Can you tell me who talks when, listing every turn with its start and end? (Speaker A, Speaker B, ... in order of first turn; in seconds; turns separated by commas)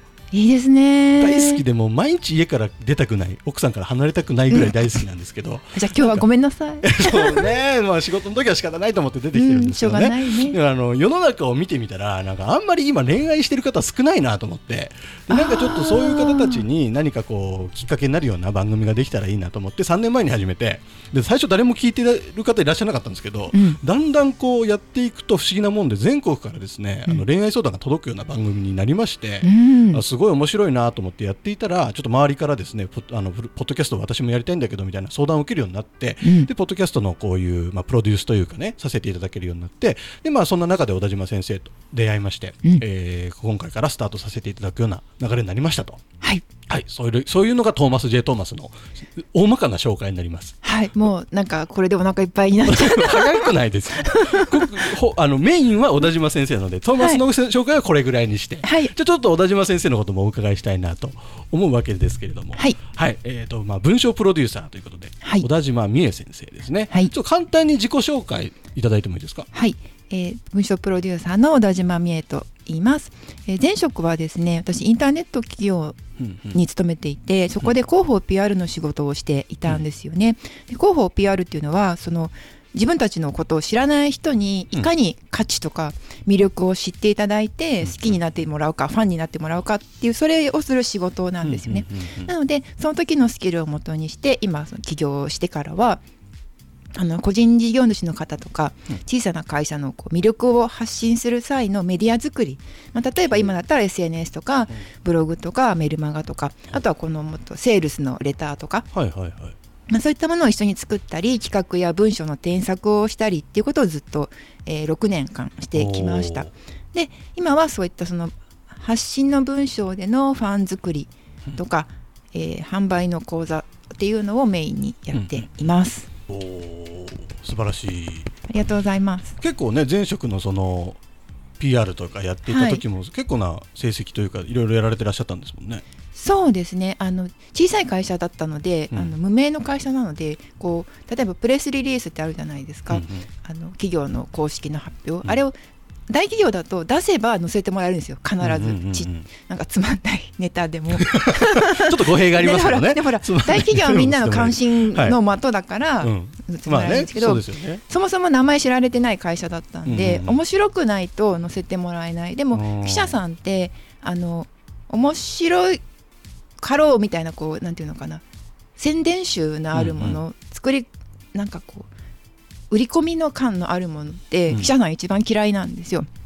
Speaker A: 0.3-1.6, Speaker B: 1.2-6.2, Speaker A: 4.5-5.0, Speaker A: 5.7-7.5, Speaker B: 6.8-46.0, Speaker A: 9.3-10.6, Speaker A: 15.3-16.6, Speaker A: 23.5-23.8, Speaker A: 29.4-30.0, Speaker A: 36.2-36.5, Speaker B: 46.7-50.5, Speaker A: 50.6-54.9, Speaker B: 52.6-69.5, Speaker A: 58.6-58.9, Speaker A: 62.5-62.8, Speaker A: 65.2-65.5, Speaker A: 69.5-76.0, Speaker B: 76.2-76.6, Speaker A: 76.5-96.0, Speaker B: 87.8-88.2, Speaker B: 91.4-92.3, Speaker A: 96.9-108.9, Speaker B: 103.3-103.6, Speaker B: 108.9-109.5, Speaker A: 109.9-126.1, Speaker B: 115.7-116.5, Speaker B: 125.1-125.5, Speaker B: 126.3-128.3, Speaker A: 128.5-129.3, Speaker B: 129.4-131.0, Speaker B: 131.6-135.8, Speaker A: 132.4-132.8, Speaker A: 136.1-145.6, Speaker B: 142.9-143.2, Speaker A: 146.1-165.8, Speaker B: 148.4-149.2, Speaker B: 150.9-155.2, Speaker B: 156.0-157.8, Speaker B: 159.8-160.4, Speaker B: 162.5-163.2, Speaker A: 166.6-168.2, Speaker A: 168.8-171.9, Speaker B: 169.7-170.2, Speaker A: 172.7-176.1